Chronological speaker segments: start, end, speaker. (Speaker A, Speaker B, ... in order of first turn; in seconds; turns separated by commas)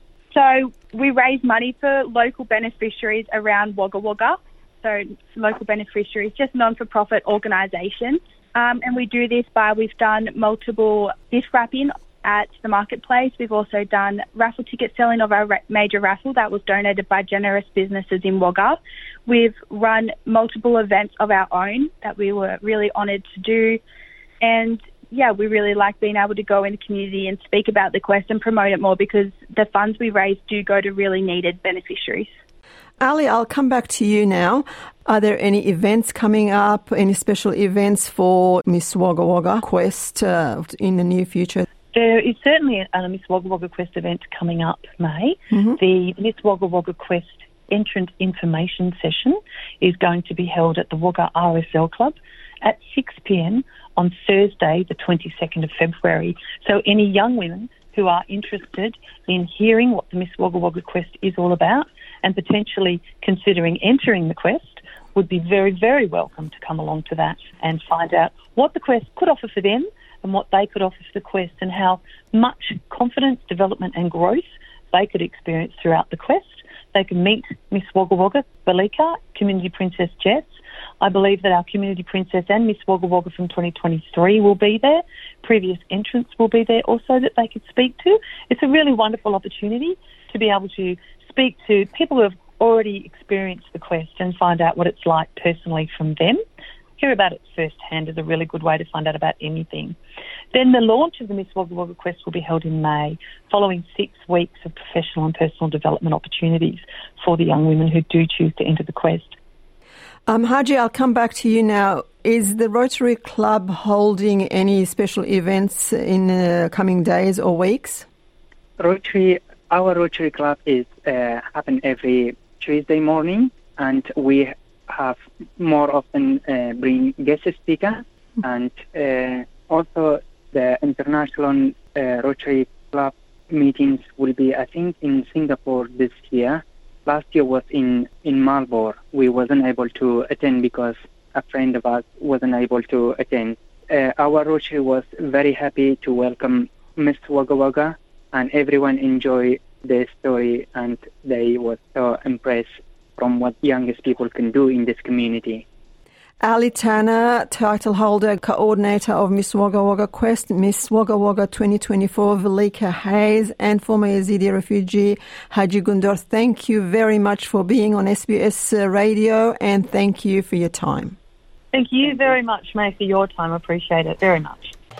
Speaker A: 0.3-23.8, Speaker A: 24.4-32.3, Speaker B: 33.0-41.6, Speaker C: 41.9-80.5, Speaker C: 81.0-96.4, Speaker C: 97.0-100.0, Speaker C: 100.5-109.3, Speaker B: 110.3-118.0, Speaker D: 118.8-155.6, Speaker B: 156.4-171.2, Speaker C: 171.7-174.7